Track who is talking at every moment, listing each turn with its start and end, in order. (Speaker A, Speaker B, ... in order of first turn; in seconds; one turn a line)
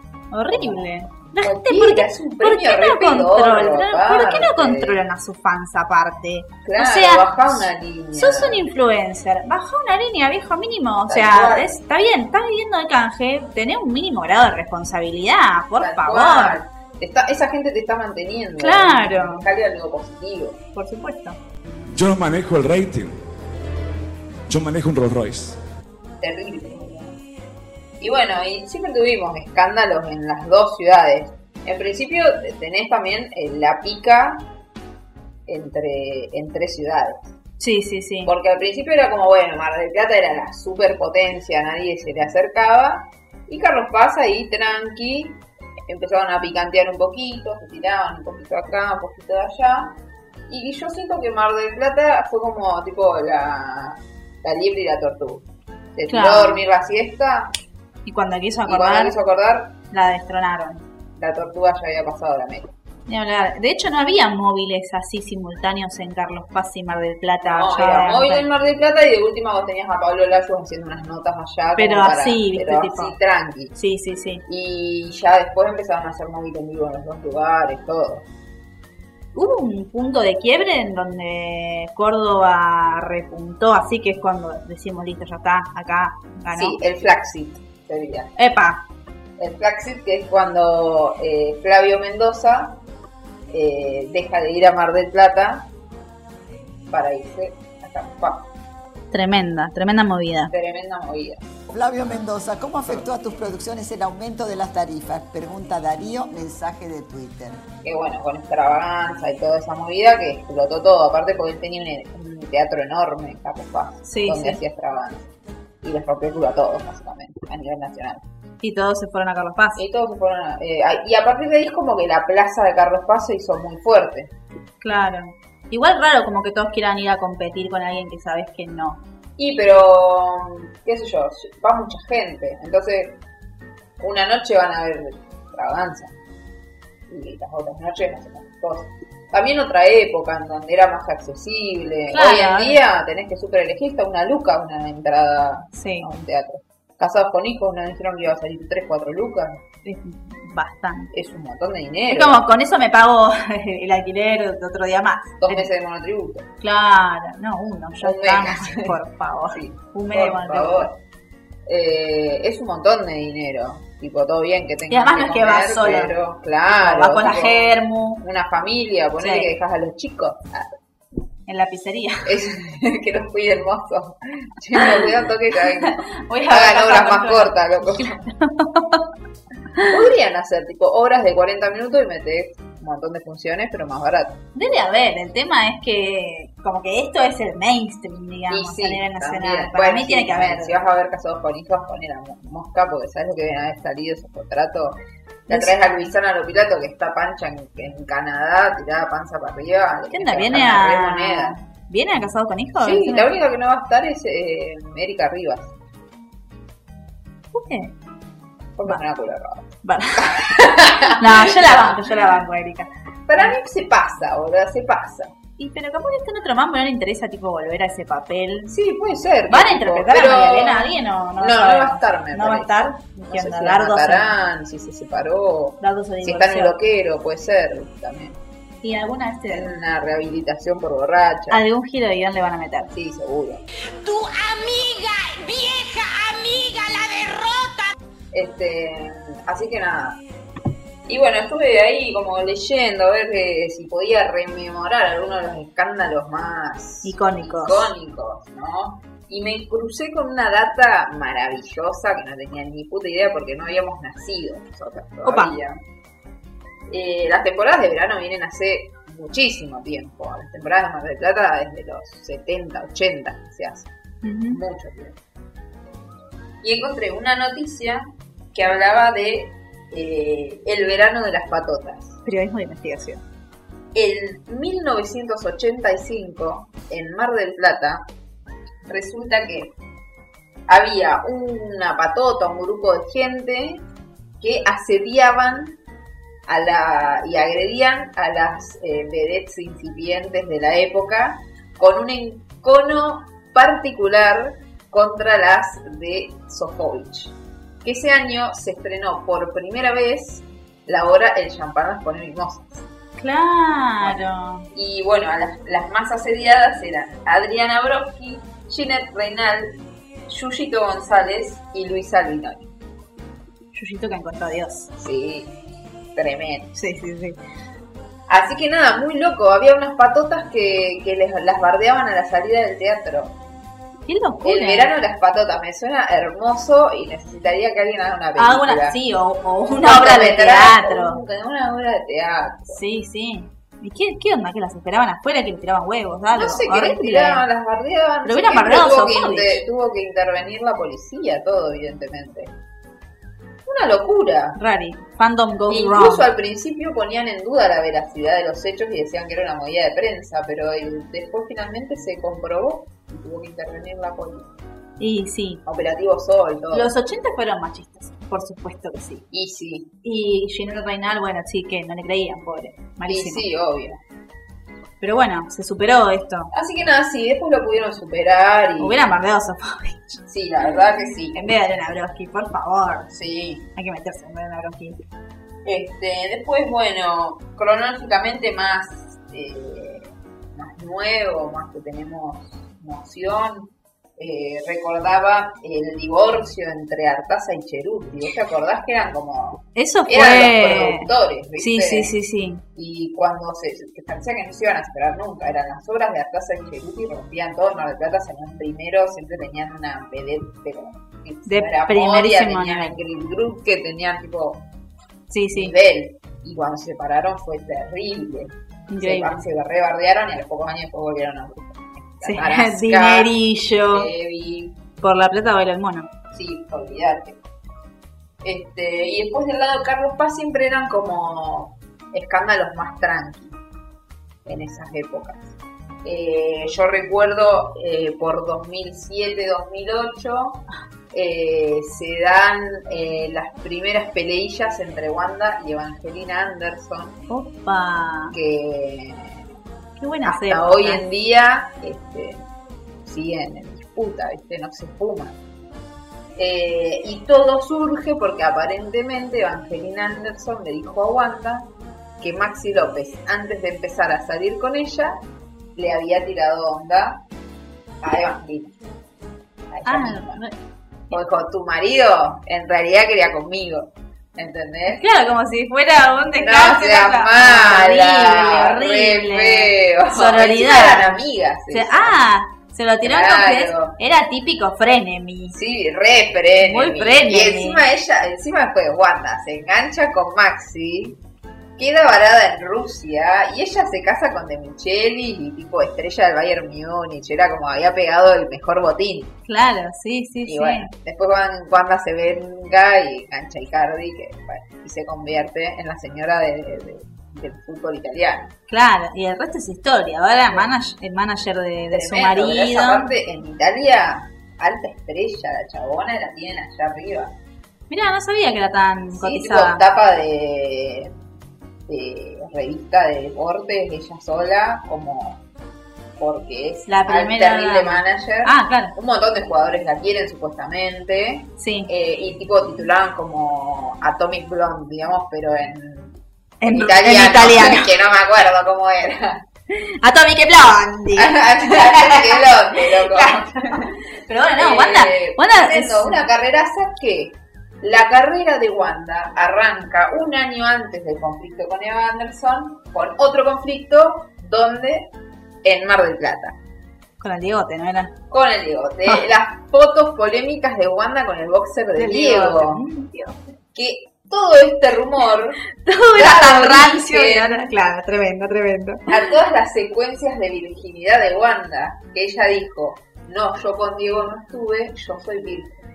Speaker A: 0.3-16.6
Speaker B: 0.5-5.0
Speaker B: 6.6-8.6
Speaker B: 11.1-11.7
Speaker B: 15.8-20.6
Speaker A: 18.6-19.4
Speaker A: 20.7-21.4
Speaker C: 21.9-23.2
Speaker C: 24.5-25.6
Speaker B: 26.2-27.1
Speaker B: 28.0-34.5
Speaker B: 35.5-37.3
Speaker A: 37.6-38.3
Speaker B: 38.2-50.0
Speaker B: 50.5-55.4
Speaker B: 55.9-57.5
Speaker A: 56.1-56.6
Speaker A: 58.0-59.1
Speaker B: 58.6-59.8
Speaker A: 59.9-60.8
Speaker B: 61.1-62.7
Speaker A: 63.1-68.4
Speaker B: 67.4-73.7
Speaker A: 71.8-73.1
Speaker A: 73.7-74.4
Speaker B: 74.5-78.2
Speaker A: 79.3-86.8
Speaker B: 86.5-88.3
Speaker A: 88.4-88.8
Speaker B: 89.4-92.8
Speaker B: 93.5-95.7
Speaker B: 96.9-98.5
Speaker A: 99.1-100.5
Speaker B: 100.5-101.4
Speaker D: 101.7-107.6
Speaker B: 107.8-115.3
Speaker A: 114.1-114.6
Speaker B: 115.8-118.2
Speaker A: 118.6-119.8
Speaker B: 119.8-124.3
Speaker A: 124.8-129.0
Speaker B: 129.4-133.2
Speaker B: 134.0-136.1
Speaker B: 137.1-149.6
Speaker A: 142.1-142.8
Speaker A: 145.8-146.1
Speaker A: 149.8-151.1
Speaker B: 151.1-152.4
Speaker A: 152.1-155.7
Speaker B: 155.4-156.5
Speaker A: 156.6-160.9
Speaker B: 158.0-159.0
Speaker B: 159.5-160.9
Speaker B: 161.7-170.8
Speaker A: 164.9-166.1
Speaker A: 166.7-168.2
Speaker A: 169.2-169.5
Speaker A: 171.5-172.3
Speaker B: 172.2-178.2
Speaker A: 174.8-175.0
Speaker A: 176.2-179.1
Speaker B: 179.8-184.4
Speaker A: 184.5-190.7
Speaker B: 188.5-201.6
Speaker A: 195.5-195.8
Speaker A: 200.1-203.3
Speaker B: 202.8-205.7
Speaker A: 207.5-207.9
Speaker B: 208.8-211.9
Speaker A: 209.8-210.4
Speaker A: 211.2-213.5
Speaker B: 213.3-215.3
Speaker A: 215.6-218.7
Speaker B: 218.7-228.4
Speaker A: 219.5-224.3
Speaker A: 225.8-226.7
Speaker A: 228.8-229.7
Speaker B: 229.5-231.6
Speaker A: 231.5-232.9
Speaker B: 232.9-233.6
Speaker E: 234.0-237.9
Speaker B: 238.3-240.2
Speaker B: 241.1-255.8
Speaker A: 247.0-247.9
Speaker A: 255.2-255.5
Speaker B: 256.9-263.9
Speaker A: 264.2-264.6
Speaker B: 264.5-265.2
Speaker B: 266.6-272.2
Speaker A: 272.2-273.2
Speaker B: 273.9-278.1
Speaker B: 278.9-279.7
Speaker B: 280.7-283.8
Speaker B: 284.4-285.8
Speaker B: 286.5-302.8
Speaker A: 303.2-304.7
Speaker B: 304.0-312.7
Speaker A: 313.7-314.9
Speaker B: 315.0-315.5
Speaker B: 316.1-316.7
Speaker A: 316.7-317.4
Speaker B: 318.3-323.4
Speaker A: 324.1-324.9
Speaker B: 324.4-329.0
Speaker A: 328.4-331.2
Speaker B: 329.8-332.8
Speaker A: 332.7-337.4
Speaker B: 336.3-342.5
Speaker A: 338.2-339.6
Speaker B: 343.6-344.6
Speaker A: 344.6-346.3
Speaker B: 345.7-354.5
Speaker A: 355.0-355.6
Speaker B: 355.6-356.9
Speaker A: 356.7-359.2
Speaker B: 359.3-359.9
Speaker A: 360.0-363.4
Speaker B: 363.1-364.0
Speaker A: 365.0-366.5
Speaker B: 366.5-369.0
Speaker A: 368.8-370.2
Speaker B: 370.3-371.4
Speaker A: 371.3-373.1
Speaker B: 373.1-373.7
Speaker A: 373.8-375.0
Speaker B: 375.6-392.1
Speaker A: 389.7-392.6
Speaker B: 392.7-404.6
Speaker A: 401.5-403.0
Speaker A: 405.3-405.7
Speaker B: 405.5-413.3
Speaker A: 408.9-409.4
Speaker A: 412.2-414.1
Speaker B: 413.9-414.8
Speaker A: 415.0-416.1
Speaker B: 416.3-417.4
Speaker B: 418.4-423.6
Speaker B: 424.4-437.2
Speaker A: 437.3-438.4
Speaker B: 438.3-439.4
Speaker A: 440.0-441.0
Speaker B: 440.2-442.5
Speaker B: 443.0-445.4
Speaker B: 446.4-451.7
Speaker B: 452.2-455.2
Speaker B: 455.8-457.2
Speaker B: 458.0-458.8
Speaker B: 459.7-460.4
Speaker A: 459.9-460.6
Speaker B: 461.1-465.0
Speaker A: 464.9-471.2
Speaker B: 466.4-472.2
Speaker A: 471.7-475.5
Speaker B: 473.0-473.9
Speaker B: 475.5-481.2
Speaker A: 476.6-477.8
Speaker B: 481.8-489.3
Speaker A: 489.5-490.9
Speaker B: 490.5-498.5
Speaker A: 498.7-503.1
Speaker B: 501.9-507.3
Speaker A: 507.9-509.8
Speaker B: 509.1-511.1
Speaker B: 511.9-515.4
Speaker B: 516.2-529.4
Speaker A: 516.9-518.9
Speaker A: 521.6-521.9
Speaker A: 526.6-527.9
Speaker A: 529.7-536.2
Speaker B: 531.1-534.0
Speaker B: 534.6-545.1
Speaker B: 545.6-546.5
Speaker A: 547.2-548.1
Speaker B: 548.3-552.8
Speaker A: 552.0-553.4
Speaker B: 553.7-555.6
Speaker A: 555.8-559.1
Speaker B: 556.1-557.7
Speaker B: 559.1-565.8